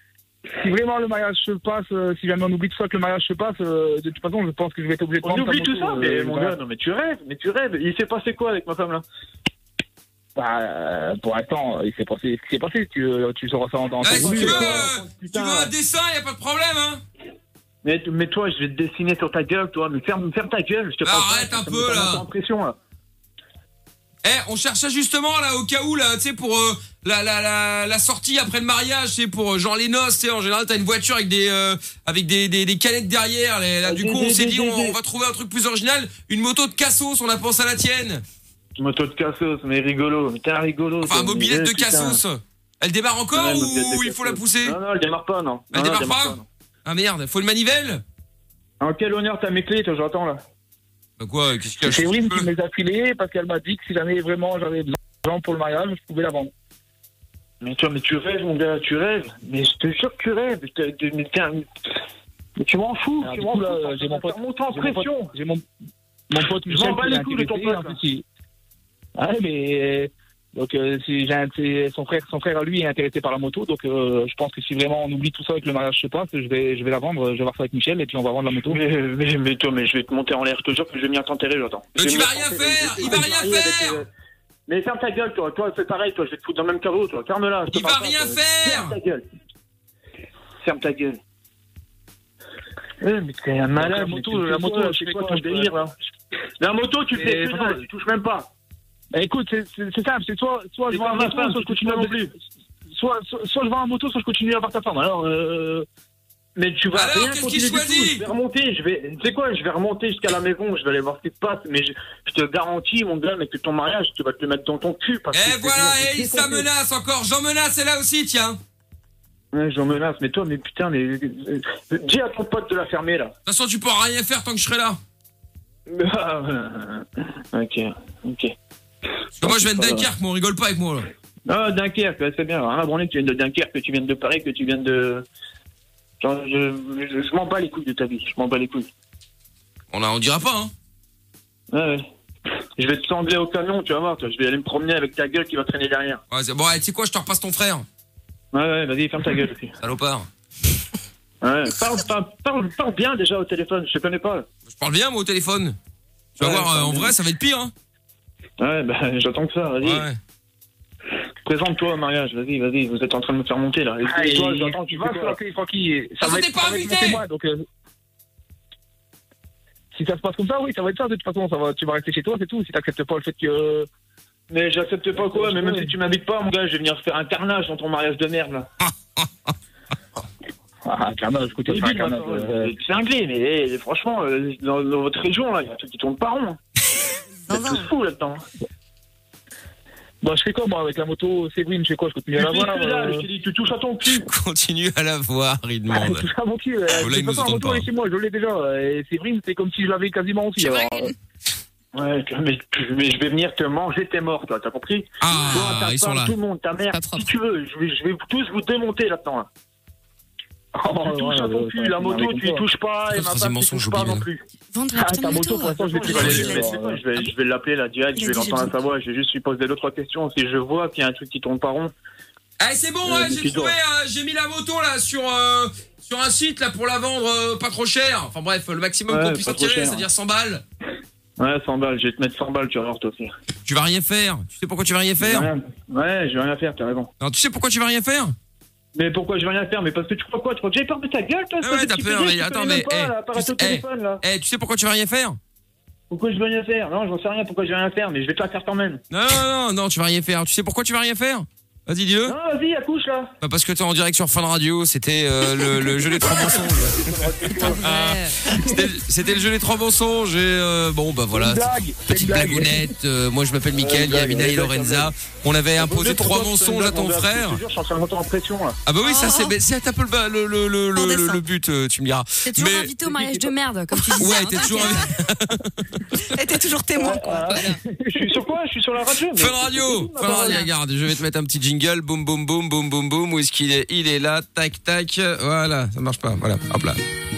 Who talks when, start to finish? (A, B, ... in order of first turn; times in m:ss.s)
0:00.5-0:06.6 A
0:05.2-0:09.0 B
0:10.4-0:14.9 A
0:14.0-0:17.0 C
0:14.0-0:15.7 B
0:17.8-0:22.8 B
0:21.0-0:22.3 C
0:24.2-0:38.2 C
0:33.8-0:35.0 B
0:38.8-0:42.2 B
0:41.0-0:44.8 C
0:43.3-0:46.4 B
0:45.7-0:48.0 C
0:48.8-0:50.4 B
0:51.2-0:52.5 C
0:51.8-0:56.5 A
0:57.6-1:01.7 B
1:02.6-1:05.3 B
1:03.2-1:05.6 A
1:06.3-1:08.2 A
1:06.7-1:08.0 B
1:09.2-1:18.8 A
1:18.7-1:24.1 B
1:22.0-1:24.0 C
1:24.7-1:29.2 B
1:27.7-1:29.0 C
1:30.6-1:31.2 B
1:33.0-1:35.9 B
1:33.8-1:35.7 A
1:36.6-1:38.5 B
1:37.1-1:37.8 A
1:39.1-1:42.2 A
1:40.9-1:42.3 B
1:42.9-1:45.9 A
1:46.6-1:56.7 B
1:46.9-1:48.3 C
1:55.3-1:58.6 C
1:59.5-2:03.3 B
2:03.5-2:05.0 C
2:05.9-2:08.5 B
2:09.4-2:11.1 C
2:09.4-2:10.1 B
2:11.5-2:15.3 B
2:16.2-2:18.9 B
2:19.9-2:20.7 C
2:21.7-2:22.1 B
2:22.8-2:26.2 B
2:26.3-2:27.9 C
2:28.5-2:29.7 B
2:29.8-2:30.3 C
2:31.4-2:34.5 B
2:34.7-2:35.8 C
2:36.4-2:37.7 C
2:36.4-2:37.1 B
2:38.6-2:40.1 B
2:39.8-2:40.2 C
2:41.4-2:45.4 B
2:44.0-2:47.7 A
2:46.2-2:47.2 C
2:49.9-2:53.9 A
2:54.5-2:58.7 B
2:55.1-2:55.9 A
3:00.8-3:02.7 A
3:01.7-3:06.6 B
3:07.5-3:07.9 D
3:07.5-3:08.4 B
3:10.2-3:13.3 A
3:12.4-3:14.3 B
3:14.1-3:16.3 C
3:15.9-3:21.1 A
3:17.0-3:17.9 C
3:20.6-3:21.1 E
3:21.9-3:29.5 B
3:25.2-3:26.4 C
3:26.9-3:27.3 E
3:30.8-3:32.6 A
3:31.0-3:34.4 B
3:33.1-3:34.3 C
3:34.7-3:35.8 E
3:34.9-3:37.0 A
3:35.7-3:41.9 B
3:36.0-3:36.7 D
3:36.1-3:36.6 C
3:38.2-3:38.6 D
3:42.6-3:50.6 C
3:43.0-3:43.8 B
3:49.1-3:50.0 B
3:51.4-3:53.3 B
3:53.6-3:55.5 C
3:55.2-3:57.1 B
3:57.2-3:58.4 C
3:59.0-4:04.2 B
4:01.6-4:05.4 C
4:06.1-4:09.0 B
4:09.1-4:12.4 C
4:12.3-4:13.3 B
4:13.4-4:27.6 C
4:16.4-4:17.9 B
4:17.6-4:18.4 E
4:21.3-4:22.9 A
4:23.7-4:25.1 B
4:25.8-4:28.8 B
4:28.9-4:32.9 C
4:29.0-4:29.6 D
4:31.0-4:31.4 D
4:32.4-4:35.2 E
4:34.2-4:36.2 C
4:36.2-4:37.7 D
4:37.0-4:38.4 A
4:37.5-4:37.8 E
4:38.1-4:40.7 B
4:39.4-4:47.0 C
4:40.2-4:40.6 E